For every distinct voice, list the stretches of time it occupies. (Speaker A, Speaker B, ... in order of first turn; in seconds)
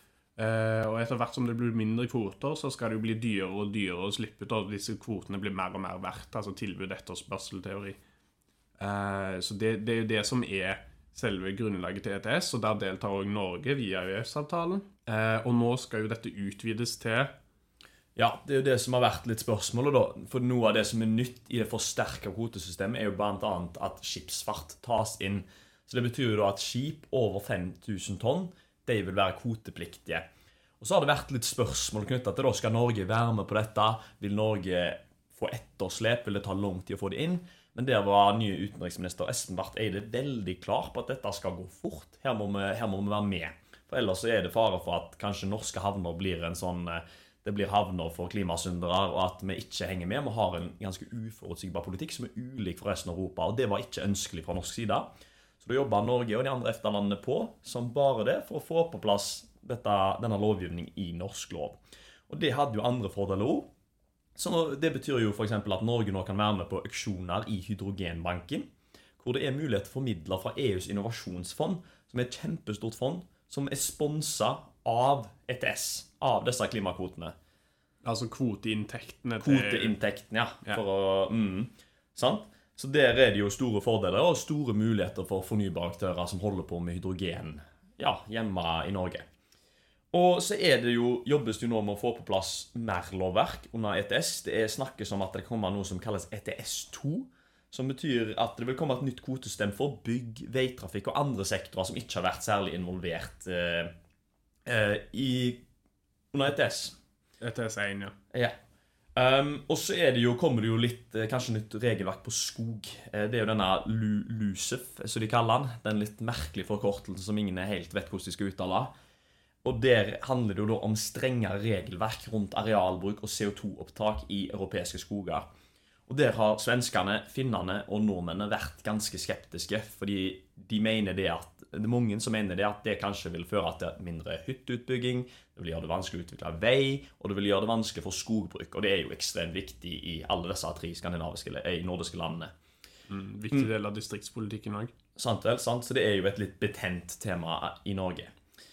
Speaker A: 0.4-8.0, 8.8-17.4, 78.0-80.0, 107.4-108.2, 143.1-144.9
Speaker B: 18.2-30.3, 30.8-63.7, 64.3-77.3, 79.4-89.3, 90.1-103.9, 104.7-105.7, 106.3-107.0, 109.2-118.9, 119.6-125.5, 126.1-142.5, 145.2-148.3